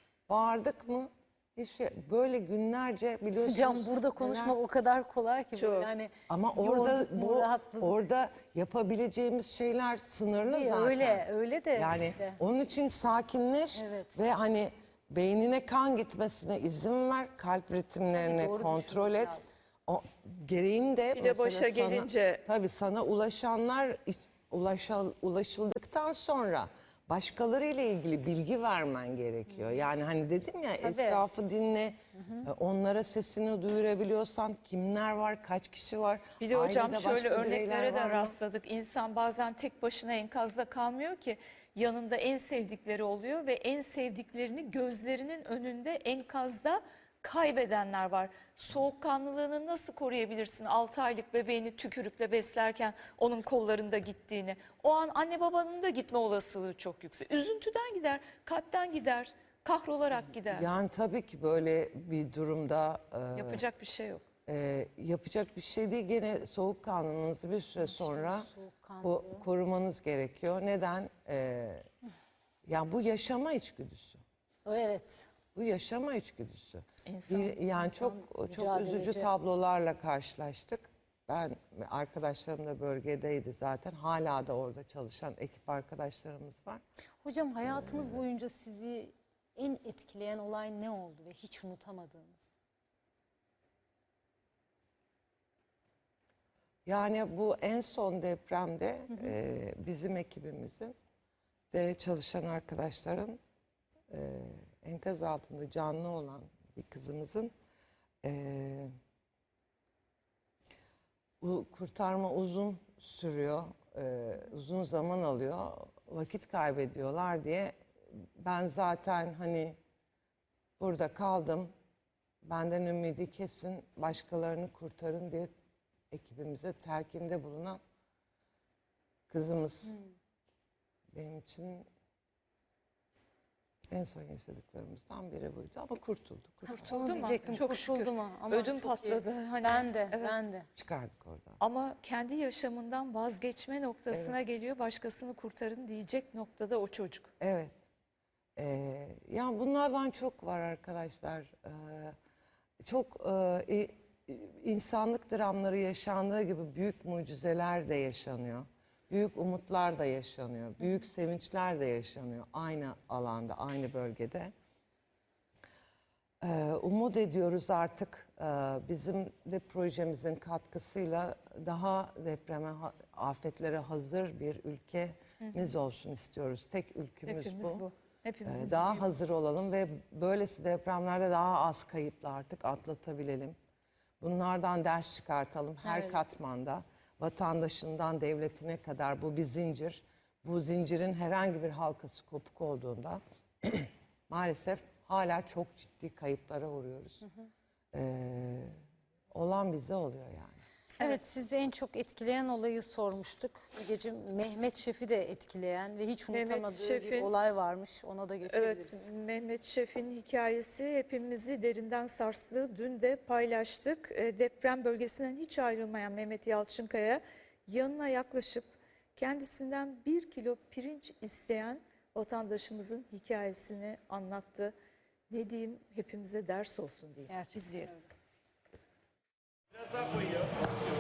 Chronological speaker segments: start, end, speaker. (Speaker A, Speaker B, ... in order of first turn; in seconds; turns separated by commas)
Speaker A: 0.3-4.6, Speaker B: 3.4-8.0, Speaker C: 5.5-5.9, Speaker A: 6.3-38.3, Speaker B: 10.4-12.4, Speaker B: 13.7-14.1, Speaker B: 18.1-19.5, Speaker C: 21.1-22.4, Speaker B: 30.8-31.2, Speaker B: 32.1-32.4, Speaker C: 36.4-60.7, Speaker A: 60.5-63.6, Speaker C: 63.4-64.2, Speaker A: 64.5-68.5, Speaker B: 67.8-69.4, Speaker A: 69.0-71.8, Speaker A: 72.7-74.2, Speaker B: 74.6-75.3, Speaker A: 75.5-86.8, Speaker C: 77.0-78.2, Speaker B: 78.4-79.3, Speaker B: 87.2-92.4, Speaker A: 87.6-88.2, Speaker A: 96.8-100.9, Speaker B: 99.1-99.4, Speaker A: 101.7-103.4, Speaker A: 104.1-107.5, Speaker A: 108.2-108.9, Speaker A: 111.4-119.8, Speaker A: 120.8-121.7, Speaker A: 122.4-125.5, Speaker A: 126.1-127.8, Speaker A: 129.3-130.0, Speaker A: 131.1-131.9, Speaker A: 133.9-137.3, Speaker C: 136.7-140.4, Speaker B: 136.8-140.7, Speaker A: 140.8-141.6, Speaker C: 141.6-147.3, Speaker A: 144.1-144.4, Speaker A: 147.4-147.7, Speaker A: 148.6-152.1, Speaker A: 152.8-164.5, Speaker A: 166.4-177.8, Speaker C: 175.4-175.7, Speaker C: 177.2-179.0, Speaker A: 178.4-183.6, Speaker A: 184.2-197.2, Speaker B: 185.8-186.2, Speaker A: 197.9-198.7, Speaker A: 199.3-200.6, Speaker B: 201.0-209.1, Speaker C: 206.3-207.3, Speaker C: 208.4-224.7, Speaker C: 225.3-227.9, Speaker B: 227.3-227.9